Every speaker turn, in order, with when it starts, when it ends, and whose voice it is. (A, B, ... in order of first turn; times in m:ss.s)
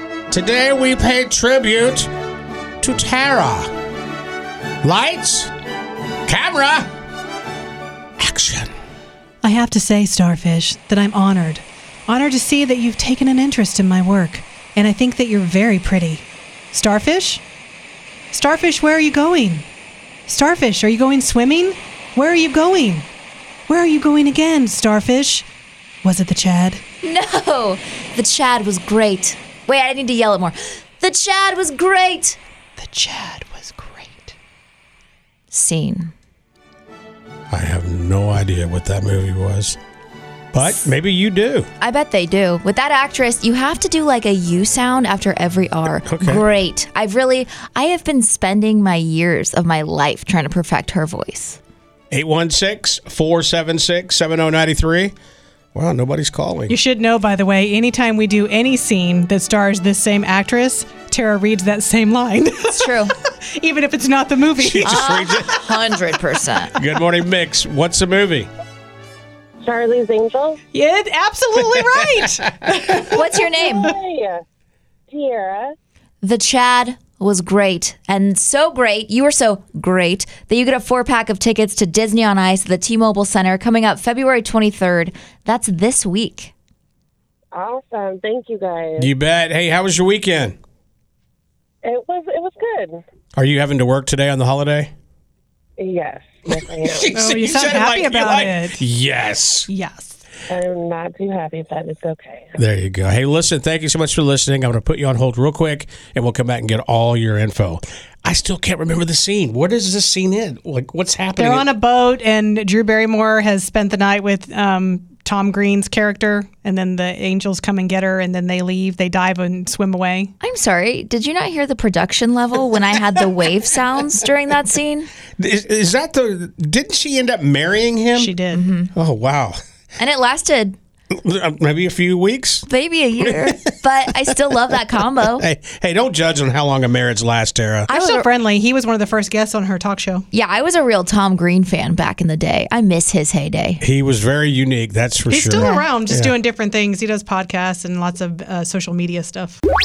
0:00.3-0:02.1 A
0:02.8-0:03.7 A
0:04.8-0:05.5 A
0:06.3-0:06.9 A
0:08.2-0:08.7 A
0:09.4-0:17.4 B
0:18.3-0:19.7 B
0:20.3-0:23.1 B
0:23.7-0:25.5 B
0:26.0-0:26.8 B
0:27.0-0:32.4 C
0:32.8-0:34.3 B
0:35.5-0:36.1 C
0:37.5-0:39.8 A
0:40.5-0:41.7 A
0:41.8-0:51.6 C
0:46.1-0:46.5 A
0:52.1-0:55.1 A
0:55.8-0:56.8 A
0:56.7-1:05.4 B
1:02.7-1:03.1 C
1:04.6-1:05.6 A
1:04.8-1:06.8 C
1:06.8-1:08.5 A
1:09.6-1:10.6 D
1:10.7-1:13.2 B
1:13.1-1:13.9 C
1:13.5-1:14.4 D
1:15.1-1:15.8 D
1:16.2-1:26.5 C
1:27.5-1:29.1 D
1:29.0-1:30.6 A
1:31.8-1:33.0 D
1:33.4-1:34.9 A
1:35.8-1:37.2 D
1:36.8-1:39.7 A
1:37.1-1:38.8 B
1:39.7-1:40.2 B
1:40.5-1:42.6 D
1:42.6-1:51.6 A
1:51.4-2:00.3 B
2:00.4-2:05.1 C
2:05.4-2:08.4 A
2:08.1-2:08.7 B
2:08.5-2:08.9 C
2:09.0-2:09.6 A
2:10.0-2:10.8 C
2:11.2-2:12.7 A
2:12.7-2:15.4 C
2:13.2-2:13.6 A
2:15.2-2:17.9 A
2:17.9-2:18.3 C
2:17.9-2:20.3 B
2:20.3-2:23.8 C
2:23.8-2:26.3 A
2:25.3-2:29.6 B
2:25.5-2:25.8 C